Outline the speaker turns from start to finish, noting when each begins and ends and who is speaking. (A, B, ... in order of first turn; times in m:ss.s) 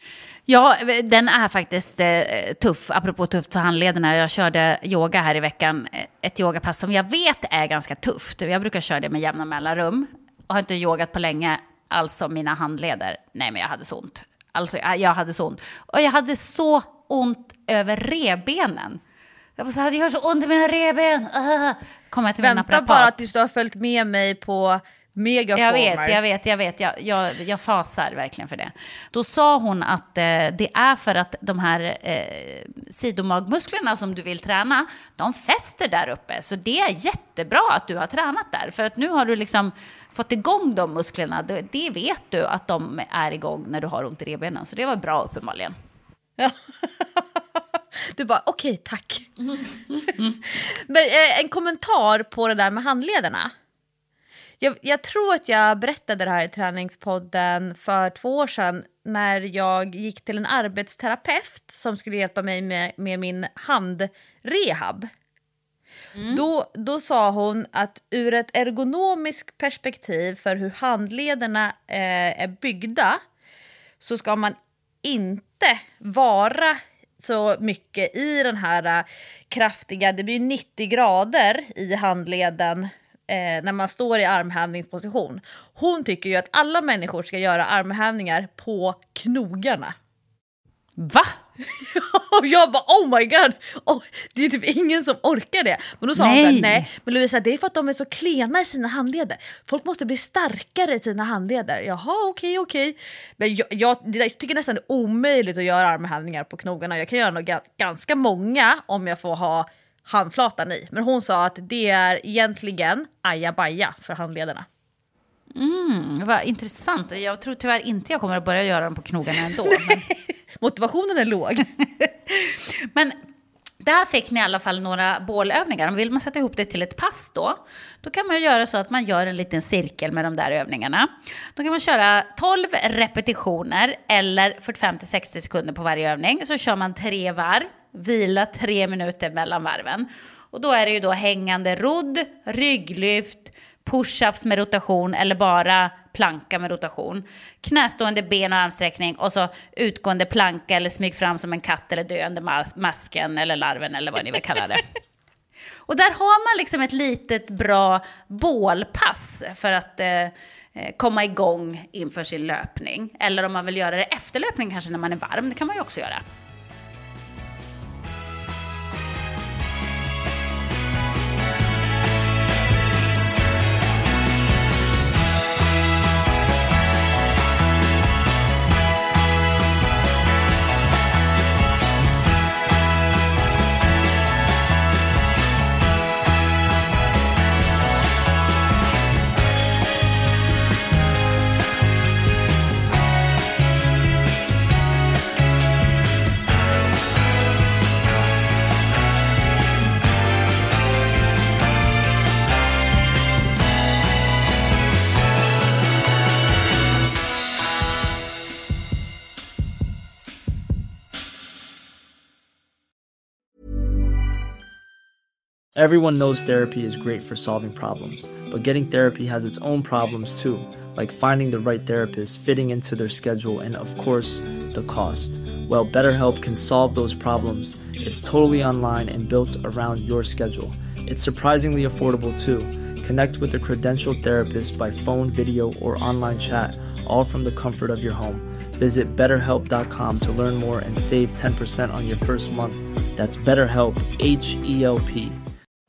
0:00.5-0:19.0 A
0:19.6-0:23.2 A
0:22.4-0:26.2 B
0:25.6-0:45.7 A
0:46.4-0:47.4 B
0:48.0-0:53.5 B
0:54.6-1:05.1 B
1:06.2-1:06.4 A
1:06.3-1:13.2 B
1:14.0-1:29.9 B
1:31.0-1:31.3 A
1:31.6-1:54.6 B
1:36.2-1:36.8 A
1:55.5-2:00.0 A
1:59.4-2:01.7 B
2:02.0-2:03.2 A
2:03.8-2:34.9 A
2:35.9-2:46.2 A
3:35.8-4:05.4 C